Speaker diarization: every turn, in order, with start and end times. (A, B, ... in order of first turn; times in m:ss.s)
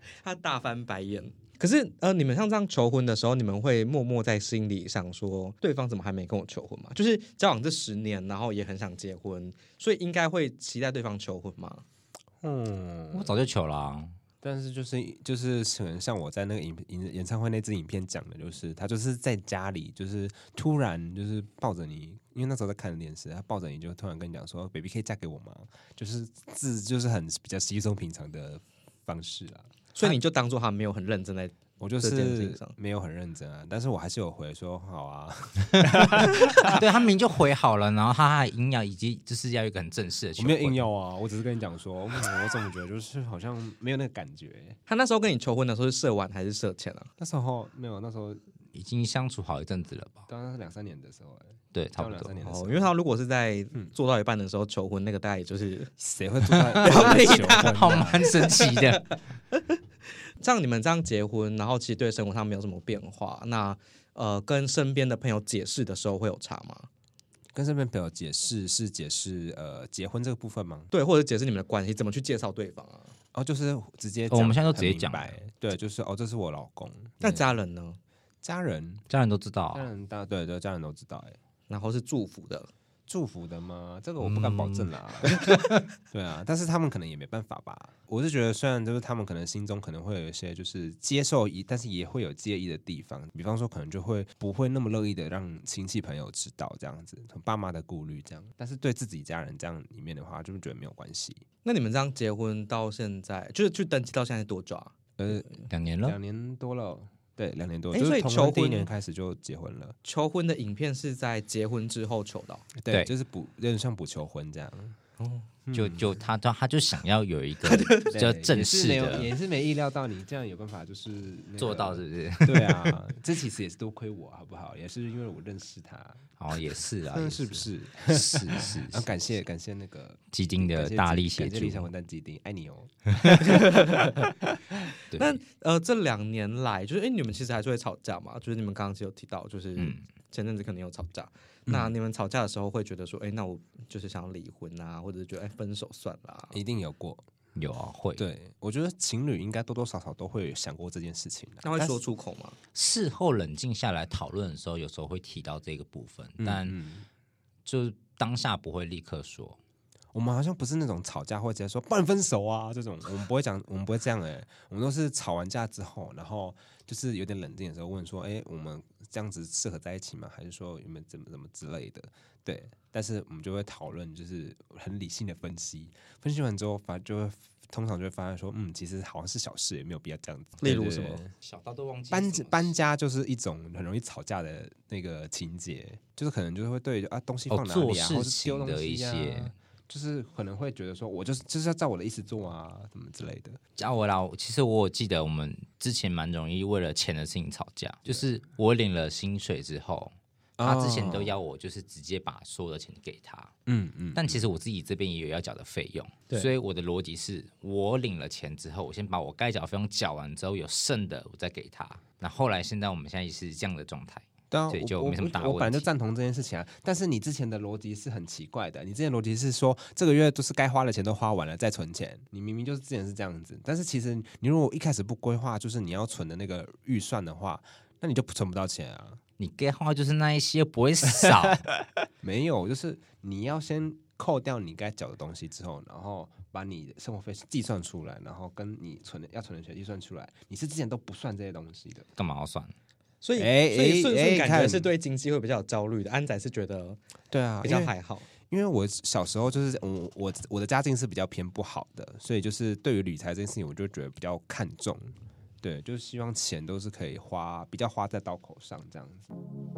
0:00.2-0:11.8 A
0:12.4-0:13.4 B
0:13.1-0:14.2 C
0:14.4-0:29.7 B
0:30.0-0:32.7 A
0:31.8-0:36.9 B
0:36.2-0:40.8 C
0:40.4-0:44.8 B
0:44.9-0:47.1 A
0:47.2-0:48.4 B
0:48.7-0:50.3 C
0:50.3-0:52.9 B
0:51.7-0:52.3 C
0:52.4-0:55.9 A
0:56.0-0:58.3 B
0:56.5-0:59.2 C
0:56.8-0:59.0 A
1:00.4-1:06.9 A
1:07.5-1:10.9 B
1:10.9-1:13.1 A
1:13.3-1:17.6 B
1:14.3-1:15.3 C
1:17.2-1:18.0 A
1:18.4-1:19.0 B
1:19.1-1:19.9 C
1:19.7-1:21.4 B
1:21.7-1:22.7 A
1:23.1-1:25.4 B
1:24.2-1:24.9 C
1:26.1-1:41.4 B
1:41.6-1:45.0 A
1:45.2-1:50.0 B
1:45.7-1:46.2 C
1:47.9-1:48.9 A
1:50.0-1:52.7 A
1:52.8-1:55.0 B
1:55.2-1:55.5 A
1:55.7-1:56.1 B
1:55.7-1:59.3 C
1:57.6-1:58.1 A
1:58.1-2:06.3 B
2:01.6-2:03.0 C
2:06.4-2:09.1 C
2:07.1-2:13.8 B
2:10.3-2:11.9 C
2:13.2-2:13.4 C
2:13.4-2:14.2 A
2:15.1-2:15.4 C
2:15.2-2:26.6 A
2:19.8-2:20.0 C
2:26.5-2:27.2 B
2:27.6-2:28.3 C
2:28.2-2:32.0 B
2:31.6-2:32.6 A
2:32.7-2:36.8 C
2:36.4-2:37.1 B
2:37.7-2:39.6 C
2:40.1-3:01.3 B
3:00.6-3:01.2 A
3:01.0-3:02.7 C
3:02.1-3:13.6 B
3:07.5-3:09.5 C
3:13.8-3:23.5 C
3:20.6-3:21.3 B
3:23.7-3:24.5 B
3:24.2-3:35.9 C
3:34.5-3:49.2 B
3:49.4-3:51.6 C
3:52.2-4:02.1 B
4:02.2-4:02.7 C
4:03.2-4:07.0 A
4:03.4-4:04.9 B
4:07.3-4:19.3 B
4:07.6-4:08.3 A